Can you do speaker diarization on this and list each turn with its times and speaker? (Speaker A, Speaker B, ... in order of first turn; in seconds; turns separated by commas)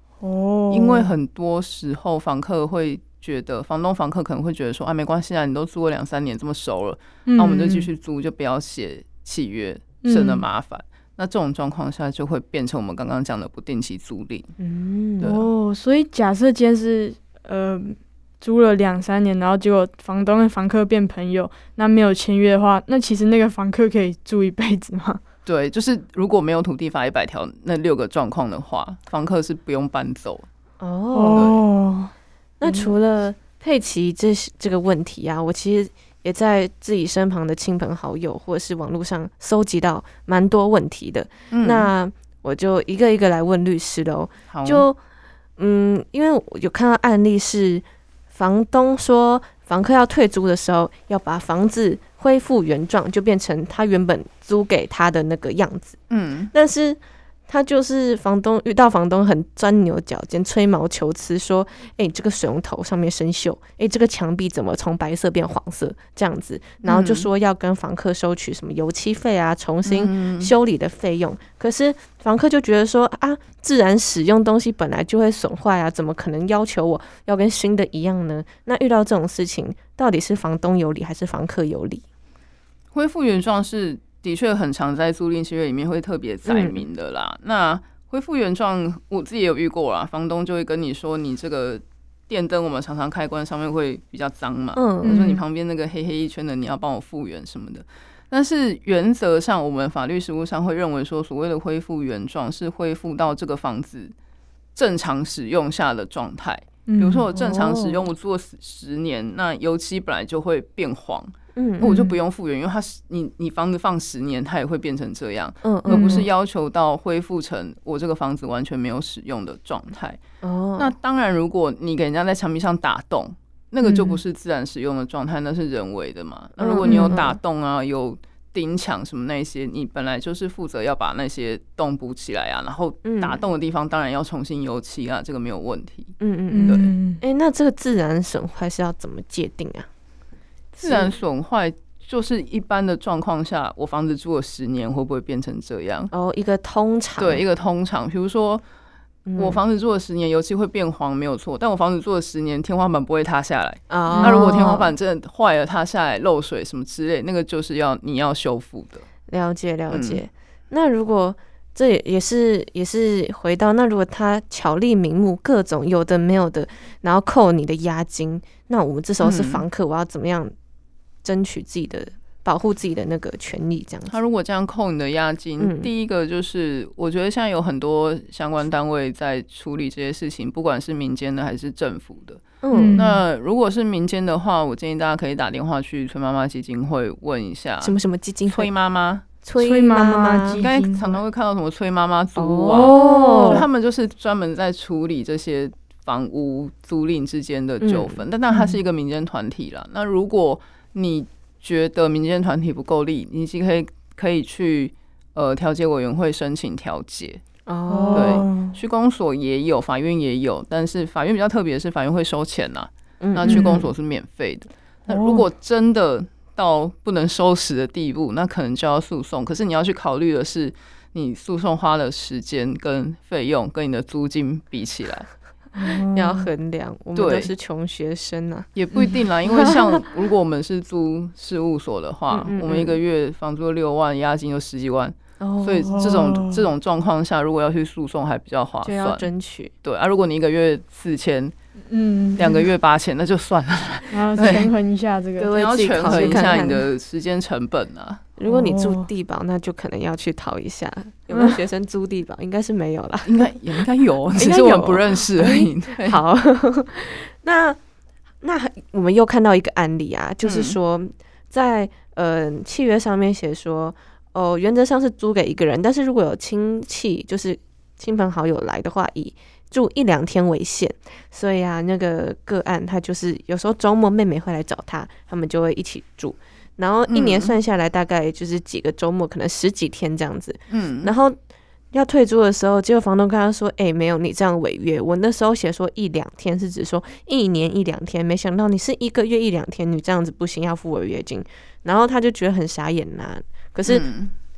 Speaker A: 0.2-1.1, Speaker B: 0.7-14.5, Speaker A: 7.3-7.9, Speaker A: 10.0-10.4, Speaker C: 14.6-15.3, Speaker B: 15.2-15.5, Speaker A: 15.2-25.2, Speaker B: 25.4-30.5, Speaker C: 30.8-31.5, Speaker A: 31.1-32.1, Speaker C: 32.6-45.0, Speaker A: 32.6-32.9, Speaker B: 41.5-41.9, Speaker B: 44.5-44.9, Speaker C: 45.6-56.0, Speaker B: 56.1-56.5, Speaker C: 56.5-82.0, Speaker B: 66.8-67.3, Speaker B: 69.8-70.5, Speaker B: 82.9-104.1, Speaker C: 86.5-86.8, Speaker C: 94.8-95.2, Speaker A: 95.0-95.4, Speaker B: 104.8-120.2, Speaker A: 106.9-107.2, Speaker C: 107.3-108.1, Speaker C: 111.6-112.0, Speaker A: 111.8-112.2, Speaker C: 115.6-116.3, Speaker A: 115.9-116.3, Speaker C: 120.4-120.9, Speaker B: 120.8-136.9, Speaker A: 123.8-124.2, Speaker C: 126.6-127.4, Speaker A: 126.8-127.2, Speaker C: 133.0-133.4, Speaker C: 136.2-139.9, Speaker A: 136.5-137.2, Speaker C: 140.7-141.2, Speaker B: 140.8-146.1, Speaker C: 146.1-147.4, Speaker B: 147.2-148.6, Speaker C: 149.2-149.6, Speaker B: 149.3-159.1, Speaker C: 153.9-154.9, Speaker A: 154.1-154.6, Speaker C: 159.3-170.5, Speaker B: 159.9-160.2, Speaker B: 169.2-169.7, Speaker C: 171.2-174.2, Speaker B: 174.1-188.0, Speaker C: 175.6-175.9, Speaker C: 182.6-183.0, Speaker A: 182.7-183.2, Speaker C: 187.8-188.7, Speaker B: 188.5-189.3, Speaker C: 189.4-190.6, Speaker A: 189.6-191.2, Speaker B: 190.6-207.4, Speaker C: 192.3-193.7, Speaker A: 192.7-193.7, Speaker C: 197.8-198.2, Speaker A: 198.5-198.8, Speaker C: 207.7-208.4, Speaker A: 207.9-208.8, Speaker B: 208.1-225.3, Speaker C: 213.2-213.9, Speaker A: 213.5-213.8, Speaker A: 215.1-215.4, Speaker A: 225.7-226.5, Speaker C: 226.1-228.7, Speaker B: 227.2-227.5, Speaker B: 228.8-239.3, Speaker C: 229.4-230.1, Speaker C: 232.3-233.0, Speaker C: 235.4-236.0, Speaker A: 235.8-236.7, Speaker C: 238.8-239.7, Speaker B: 239.8-241.5, Speaker A: 241.9-242.7, Speaker B: 242.4-244.7, Speaker A: 244.1-246.5, Speaker C: 245.4-246.9, Speaker B: 245.5-248.2, Speaker C: 248.4-253.8, Speaker A: 248.4-249.1, Speaker A: 251.3-251.6, Speaker B: 253.2-256.2, Speaker C: 254.3-257.8, Speaker C: 258.4-281.4, Speaker B: 260.4-260.8, Speaker B: 277.1-277.6, Speaker B: 280.7-281.1, Speaker C: 281.9-294.1, Speaker B: 293.9-294.3